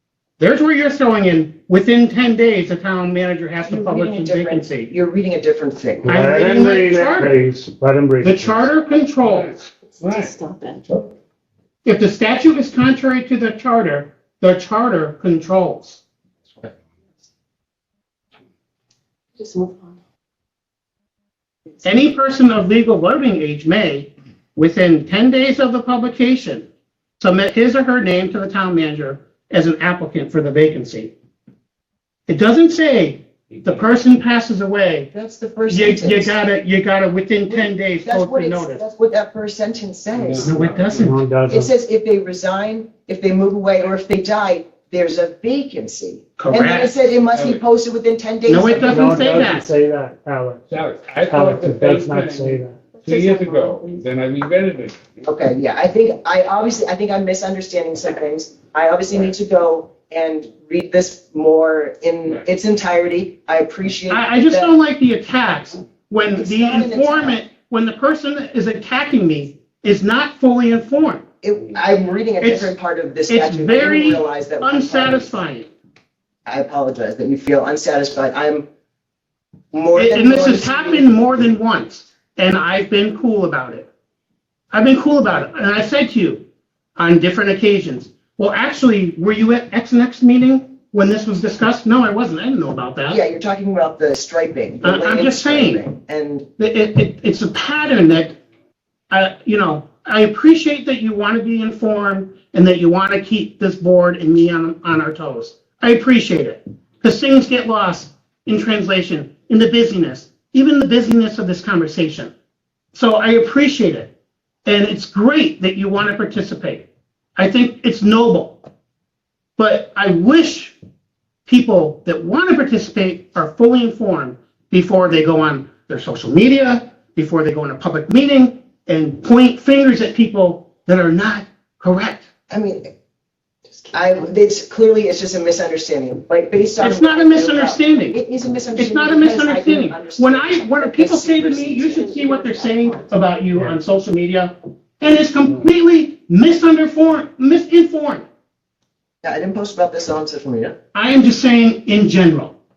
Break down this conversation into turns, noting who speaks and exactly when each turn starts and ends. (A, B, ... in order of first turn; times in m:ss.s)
0:00.4-0:04.9 A
0:03.7-0:06.1 B
0:06.0-0:08.7 C
0:06.0-0:07.4 A
0:08.2-0:09.7 A
0:09.2-0:11.1 D
0:09.9-0:10.8 E
0:11.8-0:16.0 A
0:19.4-0:19.9 E
0:21.8-0:26.7 A
0:27.2-0:31.1 A
0:32.3-0:35.1 A
0:35.1-0:36.3 B
0:35.7-0:38.8 A
0:37.5-0:40.5 B
0:40.1-0:41.2 D
0:40.4-0:41.2 A
0:41.0-0:41.7 C
0:41.5-0:49.4 B
0:46.4-0:47.0 A
0:47.2-0:47.6 D
0:48.4-0:49.7 A
0:48.8-0:50.6 C
0:50.7-0:55.2 D
0:51.3-0:52.8 C
0:53.0-0:54.0 E
0:55.2-1:04.7 B
1:04.1-1:11.2 A
1:06.3-1:07.4 B
1:11.4-1:15.3 B
1:12.4-1:12.7 A
1:13.3-1:15.7 A
1:16.4-1:18.7 B
1:19.7-1:21.1 B
1:19.9-1:23.9 A
1:24.7-1:26.4 A
1:27.0-1:33.2 A
1:33.1-1:36.5 B
1:34.8-1:35.8 A
1:36.6-1:38.4 A
1:39.1-1:52.3 A
1:52.9-1:54.1 A
1:54.6-1:58.6 A
1:59.6-2:00.7 A
2:01.4-2:12.2 A
2:12.5-2:12.9 B
2:13.7-2:14.2 E
2:13.9-2:22.2 B
2:16.8-2:18.2 A
2:18.7-2:28.3 A
2:22.1-2:23.1 E
2:29.2-2:30.8 B
2:30.9-2:32.6 A